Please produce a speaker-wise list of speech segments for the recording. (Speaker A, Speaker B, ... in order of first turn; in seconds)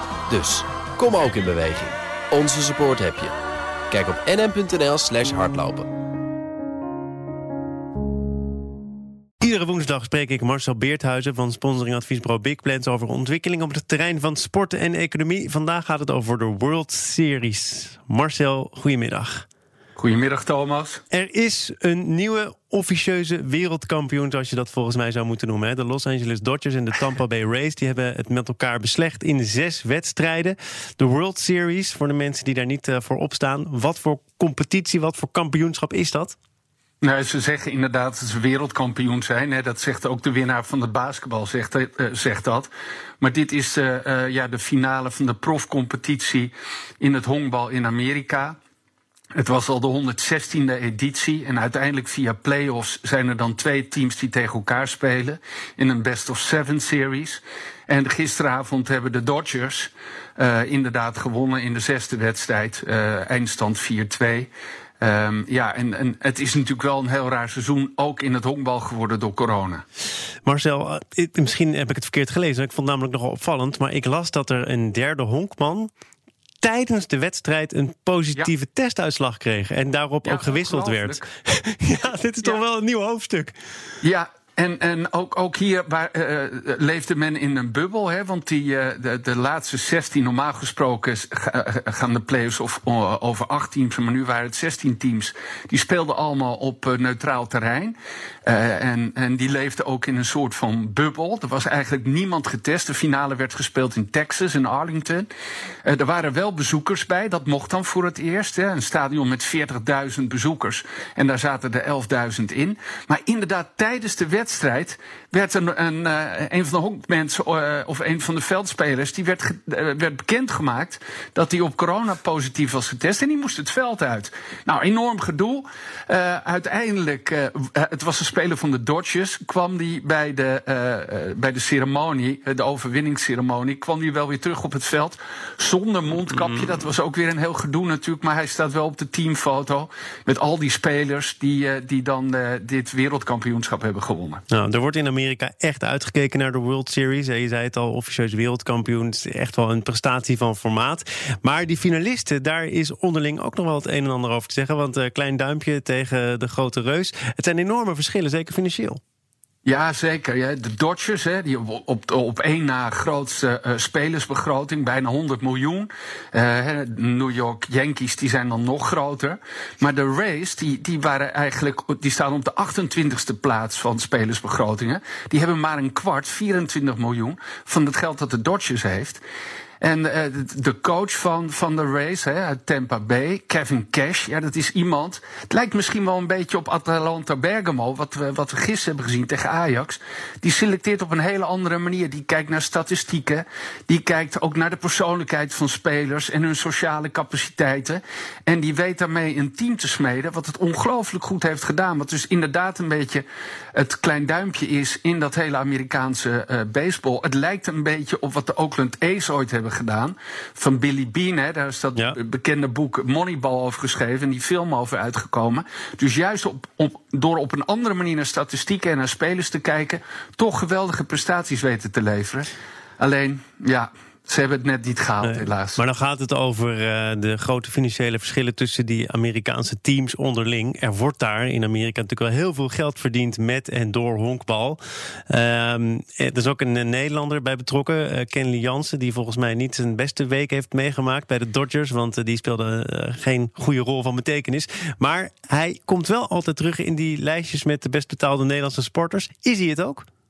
Speaker A: 0.3-3.4, 3.9-5.9
Speaker B: 9.4-19.4, 21.1-36.4, 70.4-75.9, 76.6-83.5, 144.5-159.0, 225.2-250.1
Speaker C: 19.9-21.0, 37.0-48.6, 49.4-64.5, 65.0-69.8, 80.2-81.2, 84.0-105.3, 105.8-144.4, 159.6-179.2, 179.8-222.5, 223.0-225.8